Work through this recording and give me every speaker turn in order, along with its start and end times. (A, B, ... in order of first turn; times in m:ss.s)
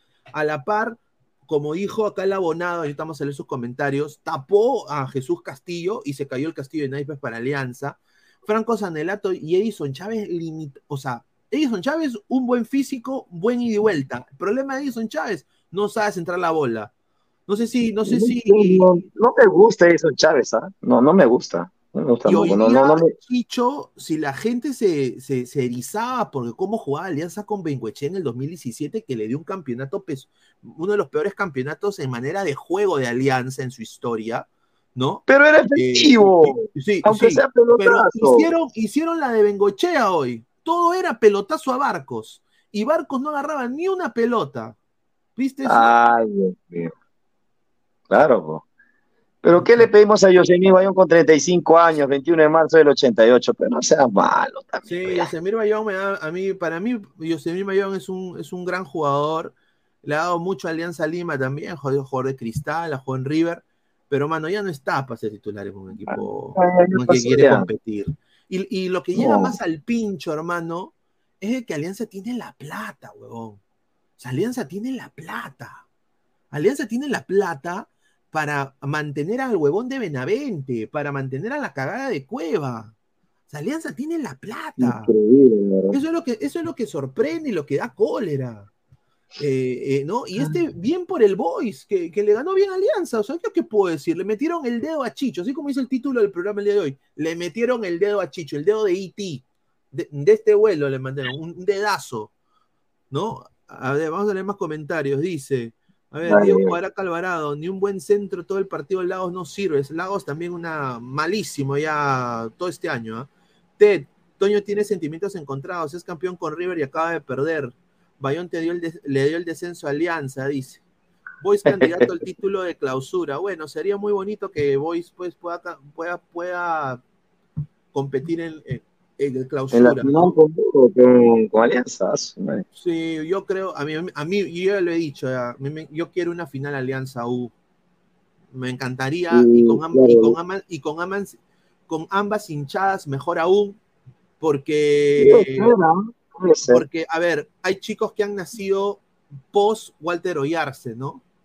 0:00.3-0:16.9 A
0:17.5-0:19.0 A
0:18.0-0:23.1 B
0:22.2-0:44.8 A
0:35.3-0:38.5 B
0:45.4-0:45.9 A
0:45.6-0:46.9 B
0:48.1-0:48.6 B
0:49.4-0:55.3 B
0:54.8-1:13.6 A
1:06.0-1:07.7 B
1:09.1-1:09.6 B
1:14.2-1:15.8 A
1:16.5-1:22.9 A
1:23.5-1:25.1 A
1:24.8-1:26.0 B
1:25.9-1:28.7 A
1:29.4-1:42.3 A
1:43.1-2:00.8 A
1:46.2-1:46.8 B
2:01.4-2:07.0 A
2:01.7-2:02.1 B
2:07.9-2:10.3 A
2:09.7-2:12.6 B
2:12.7-2:17.5 A
2:18.5-2:23.8 A
2:19.3-2:20.4 B
2:24.4-2:25.7 A
2:25.2-2:26.8 B
2:26.7-2:31.2 A